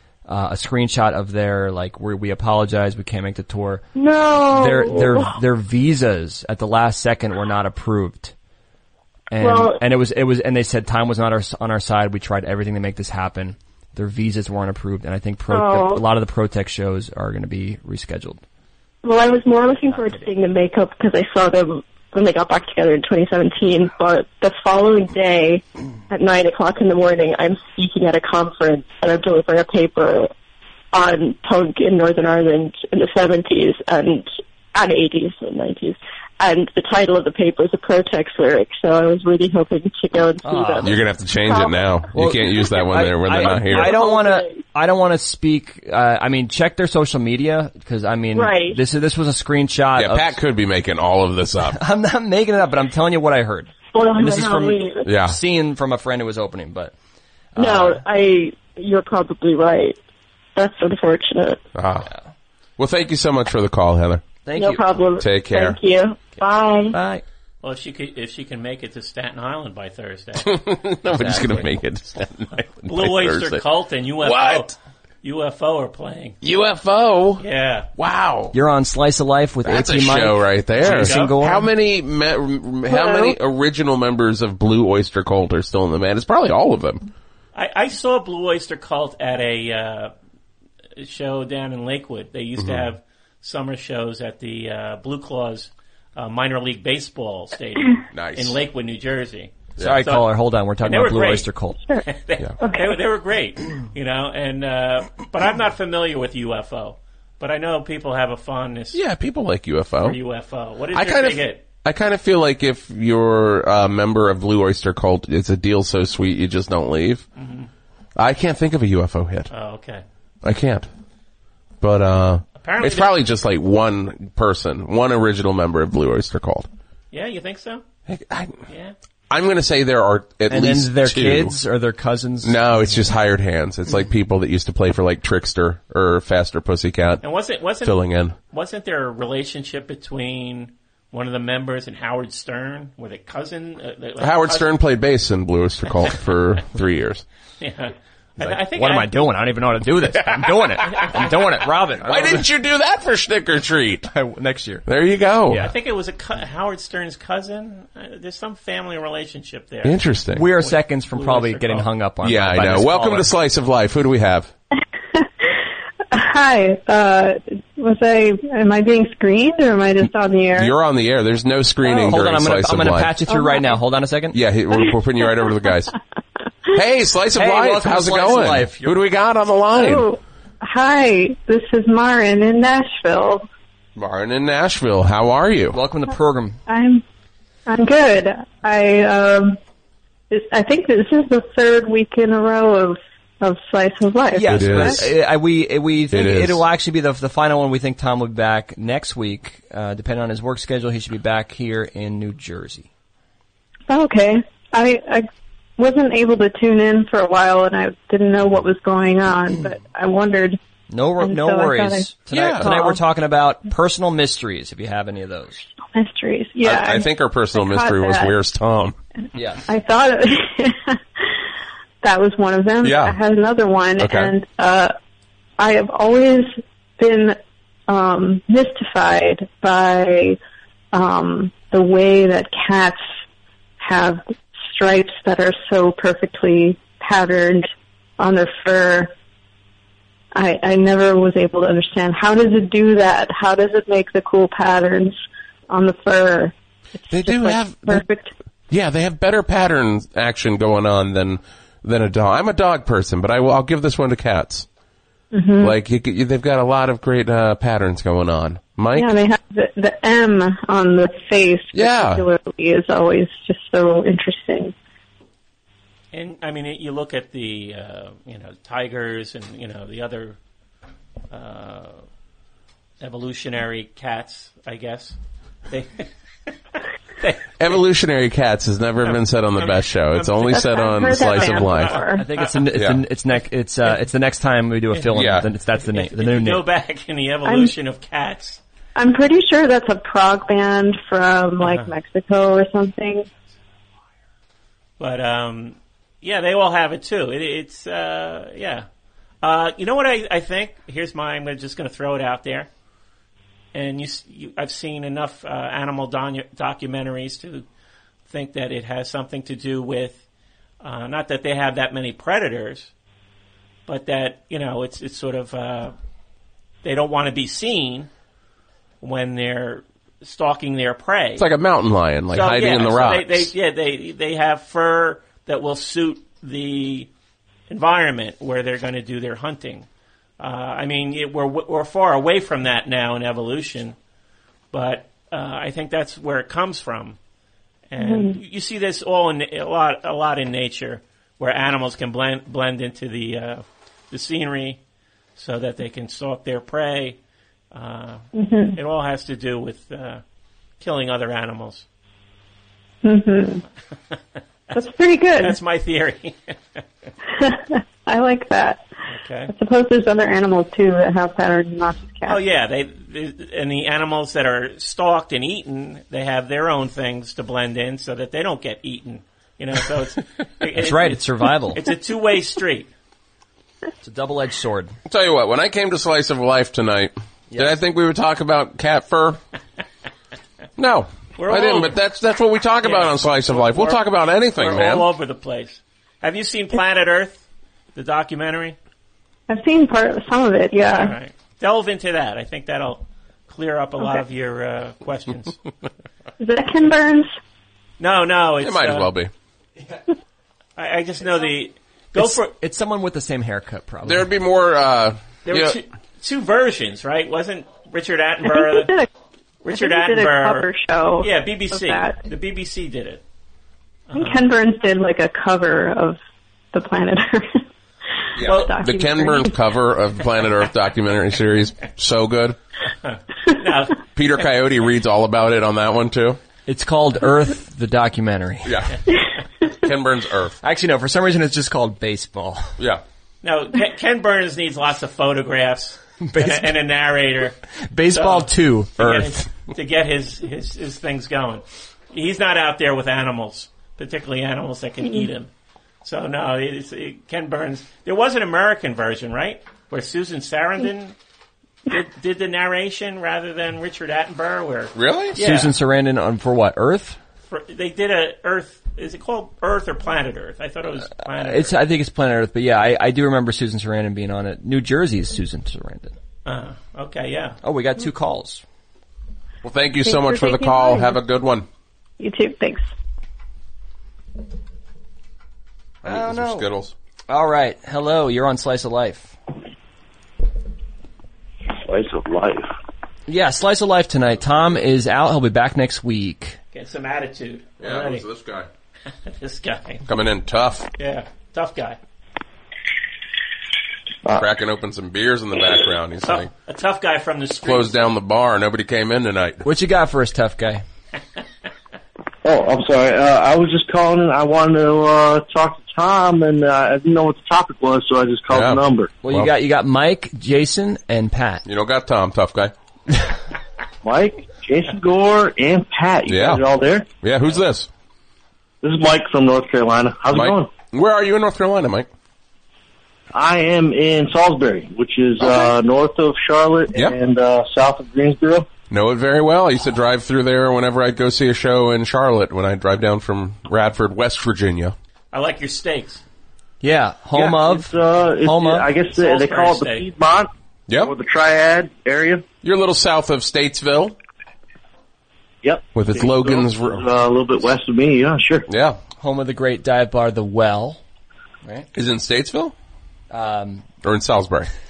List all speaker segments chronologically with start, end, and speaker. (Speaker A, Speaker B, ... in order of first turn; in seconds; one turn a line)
Speaker A: 0.3-3.9
Speaker B: 3.9-5.4
Speaker A: 4.5-8.3
Speaker A: 9.3-18.4
Speaker B: 9.4-9.8
Speaker B: 15.5-16.0
Speaker B: 19.0-30.3
Speaker B: 30.9-41.9
Speaker A: 40.4-40.9
Speaker C: 40.8-44.0
Speaker A: 42.1-50.4
Speaker B: 43.5-44.6
Speaker B: 48.4-48.8
Speaker C: 50.0-51.8
Speaker A: 51.7-56.9
Speaker B: 53.9-55.1
Speaker C: 55.0-55.4
Speaker A: 57.5-58.0
Speaker B: 57.6-60.0
Speaker B: 60.6-61.6
Speaker C: 61.8-62.1
Speaker C: 62.8-64.2
Speaker A: 64.4-64.8
Speaker B: 64.6-66.9
Speaker C: 65.2-65.8
Speaker A: 66.9-67.2
Speaker D: 67.6-70.6
Speaker C: 70.4-73.6
Speaker A: 71.2-71.7
Speaker D: 72.8-76.4
Speaker C: 74.2-74.8
Speaker C: 76.4-77.4
Speaker D: 77.4-77.9
Speaker C: 78.0-78.5
Speaker A: 78.5-81.7
Speaker C: 79.7-87.1
Speaker D: 80.8-81.4
Speaker E: 82.9-83.3
Speaker D: 87.5-90.1
Speaker D: 91.0-100.2
Speaker C: 92.6-92.9
Speaker C: 98.1-98.6
Speaker A: 99.8-101.8
Speaker D: 100.8-101.5
Speaker D: 102.1-109.0
Speaker E: 102.6-103.0
Speaker C: 108.9-110.2
Speaker D: 110.0-111.6
Speaker C: 110.9-117.2
Speaker D: 117.4-117.7
Speaker C: 118.2-119.5
Speaker D: 119.5-120.0
Speaker C: 120.4-120.9
Speaker C: 121.8-126.7
Speaker D: 122.6-123.2
Speaker D: 127.1-127.8
Speaker C: 128.1-128.6
Speaker D: 128.7-128.9
Speaker C: 129.3-131.5
Speaker A: 130.5-132.8
Speaker C: 132.4-137.2
Speaker D: 137.2-144.7
Speaker C: 137.8-138.3
Speaker C: 144.2-147.2
Speaker D: 147.6-149.1
Speaker A: 148.7-152.5
Speaker C: 152.0-154.1
Speaker A: 154.1-154.8
Speaker C: 154.8-155.7
Speaker A: 155.5-155.7
Speaker D: 155.6-160.0
Speaker C: 159.8-160.5
Speaker A: 160.3-163.3
Speaker D: 160.6-161.9
Speaker C: 162.2-164.5
Speaker E: 166.1-170.8
Speaker C: 170.5-173.2
Speaker A: 171.8-174.4
Speaker E: 173.3-173.7
Speaker C: 174.3-175.9
Speaker C: 176.7-180.1
Speaker A: 177.4-179.0
Speaker E: 179.8-183.5
Speaker C: 184.0-185.8
Speaker A: 185.7-186.6
Speaker E: 186.7-187.0
Speaker E: 187.7-189.6
Speaker E: 190.3-195.0
Speaker A: 194.3-202.9
Speaker C: 194.5-195.1
Speaker C: 196.1-196.6
Speaker E: 203.9-210.6
Speaker A: 210.9-215.7
Speaker E: 211.2-213.0
Speaker C: 212.3-212.7
Speaker E: 215.9-218.3
Speaker C: 216.6-219.0
Speaker A: 219.3-219.6
Speaker E: 219.7-221.0
Speaker E: 222.0-224.9
Speaker C: 222.8-223.2
Speaker C: 224.0-224.3
Speaker E: 225.6-227.4
Speaker E: 227.9-230.4
Speaker E: 230.9-233.0
Speaker E: 233.8-239.1
Speaker E: 240.3-245.2
Speaker E: 245.7-248.3
Speaker C: 247.1-248.0
Speaker C: 248.7-254.7
Speaker E: 255.3-255.8
Speaker C: 255.6-259.1
Speaker E: 258.9-264.7
Speaker C: 261.7-262.2
Speaker D: 266.1-270.4
Speaker D: 271.3-272.0
Speaker D: 273.0-275.1
Speaker D: 275.7-276.1
Speaker D: 277.2-277.7
Speaker C: 277.6-281.9
Speaker D: 279.0-282.5
Speaker E: 280.4-282.2
Speaker A: 282.1-286.6
Speaker C: 282.8-283.0
Speaker D: 284.9-288.6
Speaker C: 285.1-285.5
Speaker E: 287.4-287.7
Speaker E: 289.0-293.3
Speaker D: 291.6-291.9
Speaker D: 295.0-298.9
Speaker D: 299.4-302.7
Speaker D: 303.7-307.6
Speaker D: 308.3-310.2
Speaker D: 310.8-312.9
Speaker D: 313.9-315.9
Speaker D: 316.8-318.1
Speaker D: 319.0-321.5
Speaker C: 321.4-323.5
Speaker D: 322.3-327.1
Speaker D: 327.7-329.9
Speaker D: 330.4-334.0
Speaker D: 334.7-337.2
Speaker D: 337.9-344.8
Speaker E: 338.0-338.4
Speaker D: 345.4-347.2
Speaker D: 347.7-350.2
Speaker E: 348.4-348.8
Speaker D: 350.8-351.9
Speaker E: 353.0-353.6
Speaker E: 354.7-355.6
Speaker D: 355.4-356.8
Speaker E: 357.4-358.9
Speaker D: 359.1-359.5
Speaker E: 359.5-362.4
Speaker D: 362.3-372.9
Speaker A: 370.8-371.8
Speaker A: 374.0-375.0
Speaker C: 375.1-379.4
Speaker A: 377.5-377.8
Speaker C: 380.8-385.1
Speaker D: 381.4-382.0
Speaker D: 382.8-384.0
Speaker D: 384.6-388.8
Speaker E: 389.5-391.1
Speaker D: 390.9-395.6
Speaker E: 396.4-397.3
Speaker D: 398.0-399.1
Speaker C: 398.6-399.3
Speaker D: 400.8-402.5
Speaker A: 402.2-404.3
Speaker C: 404.1-405.8
Speaker D: 405.5-409.0
Speaker E: 408.4-409.1
Speaker D: 409.6-410.7
Speaker E: 409.7-412.2
Speaker D: 411.2-413.2
Speaker D: 414.1-414.5
Speaker E: 414.1-416.2
Speaker E: 416.7-417.6
Speaker C: 418.4-422.6
Speaker D: 418.4-418.9
Speaker E: 418.4-419.5
Speaker D: 423.0-424.0
Speaker C: 424.1-426.4
Speaker A: 426.7-428.8
Speaker C: 428.6-429.0
Speaker C: 429.7-430.6
Speaker A: 430.6-432.7
Speaker D: 433.4-437.6
Speaker A: 436.2-436.7
Speaker A: 437.9-439.4
Speaker D: 438.1-445.5
Speaker D: 446.0-451.1
Speaker D: 451.9-455.7
Speaker C: 454.9-455.4
Speaker A: 455.4-457.2
Speaker D: 457.5-461.8
Speaker A: 461.2-466.1
Speaker D: 466.5-467.6
Speaker A: 467.6-468.6
Speaker C: 469.6-471.7
Speaker E: 470.0-471.2
Speaker E: 472.2-472.9
Speaker C: 476.0-476.9
Speaker A: 476.0-476.7
Speaker A: 477.3-479.4
Speaker F: 481.8-482.7
Speaker A: 483.3-486.6
Speaker D: 486.7-488.2
Speaker C: 487.8-488.7
Speaker D: 489.2-490.0
Speaker C: 490.1-490.9
Speaker D: 491.0-492.0
Speaker C: 494.3-496.5
Speaker D: 496.2-498.0
Speaker C: 497.6-499.6
Speaker A: 499.6-500.8
Speaker F: 502.4-509.1
Speaker C: 508.5-509.5
Speaker A: 509.2-511.6
Speaker C: 511.6-512.7
Speaker F: 514.0-517.1
Speaker C: 516.3-516.6
Speaker C: 517.2-517.9
Speaker F: 518.8-520.7
Speaker C: 520.3-522.1
Speaker F: 523.3-528.7
Speaker C: 528.9-534.9
Speaker D: 535.3-536.2
Speaker A: 536.8-538.9
Speaker F: 537.4-542.4
Speaker D: 539.1-540.1
Speaker C: 542.6-544.1
Speaker F: 545.6-548.7
Speaker C: 545.9-547.0
Speaker C: 548.7-549.0
Speaker A: 549.2-551.0
Speaker C: 551.9-552.7
Speaker A: 553.3-553.9
Speaker C: 554.0-554.7